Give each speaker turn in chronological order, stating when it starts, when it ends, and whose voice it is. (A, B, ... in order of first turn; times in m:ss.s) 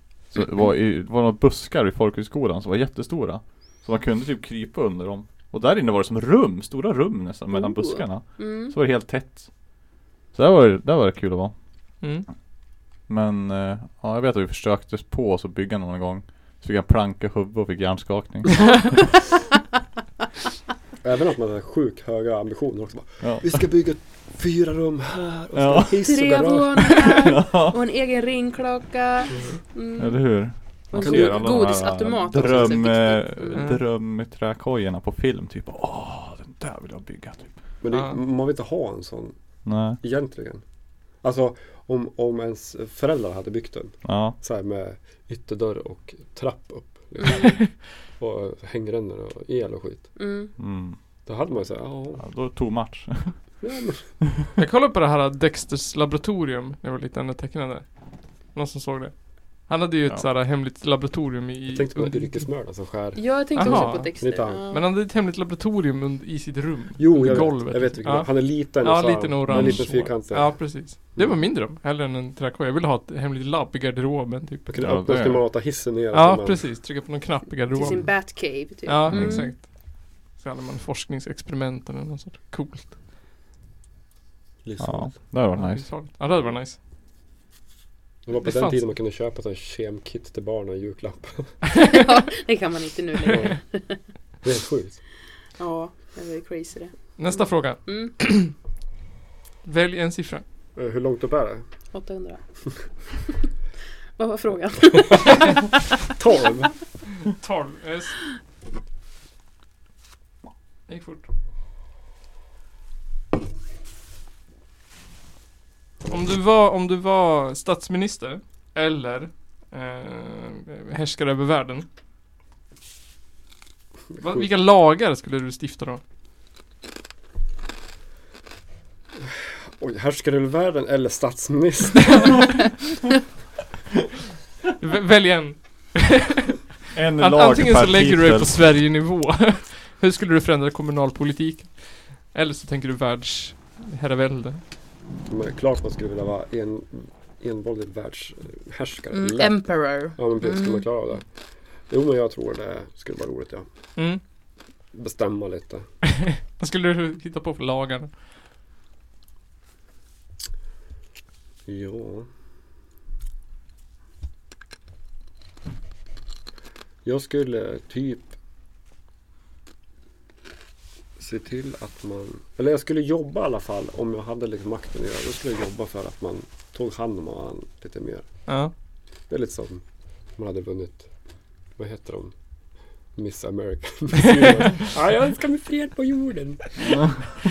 0:00.3-0:09.5 A
0:07.5-0:08.7 B
0:10.3-0:11.5 A
0:13.1-0:19.2 A
0:21.0-0:27.3 C
0:23.2-0:23.6 A
0:25.6-0:26.0 A
0:26.0-0:30.2 B
0:27.2-0:27.7 A
0:30.0-0:37.6 A
0:30.9-0:33.6 B
0:31.0-0:31.6 C
0:32.3-0:32.8 C
0:33.6-0:33.8 D
0:37.8-0:39.4 C
0:37.9-0:38.2 D
0:39.6-0:40.0 A
0:40.0-0:40.6 C
0:41.2-0:50.1 C
0:44.0-0:44.4 A
0:47.2-0:47.6 B
0:47.4-0:47.6 D
0:50.2-0:50.5 B
0:50.6-0:51.0 A
0:51.3-0:52.2 C
0:52.2-0:53.6 A
0:53.6-0:54.2 C
0:54.6-1:02.5 D
1:01.7-1:04.6 C
1:03.2-1:04.9 B
1:03.6-1:04.2 D
1:04.7-1:14.7 D
1:07.0-1:11.4 C
1:07.2-1:07.5 A
1:09.5-1:09.9 A
1:14.7-1:16.6 C
1:14.8-1:15.4 A
1:16.1-1:23.0 D
1:17.7-1:19.6 B
1:19.1-1:19.5 A
1:24.6-1:25.2 C
1:24.8-1:25.9 A
1:25.5-1:26.8 D
1:28.3-1:31.6 C
1:28.4-1:28.8 D
1:31.7-1:34.0 B
1:33.3-1:33.6 C
1:34.4-1:35.0 C
1:35.6-1:38.1 B
1:37.2-1:38.5 D
1:39.6-1:40.4 D
1:40.8-1:41.6 C
1:41.9-1:42.4 B
1:44.2-1:45.8 B
1:46.1-1:46.7 C
1:47.2-1:48.2 D
1:50.9-1:51.3 D
1:56.0-2:01.9 D
2:04.2-2:06.0 D
2:04.2-2:04.5 C
2:09.2-2:12.6 C
2:14.8-2:16.6 D
2:16.9-2:18.5 A
2:17.2-2:24.6 D
2:25.3-2:31.3 C
2:29.1-2:30.9 B
2:31.9-2:33.7 C
2:34.9-2:35.9 C
2:36.3-2:38.1 D
2:41.7-2:42.3 C
2:47.0-2:48.4 C
2:51.2-2:58.3 C
2:58.5-2:58.7 D
2:59.3-2:59.8 C
3:00.4-3:01.1 C
3:01.8-3:02.3 C
3:03.1-3:07.1 C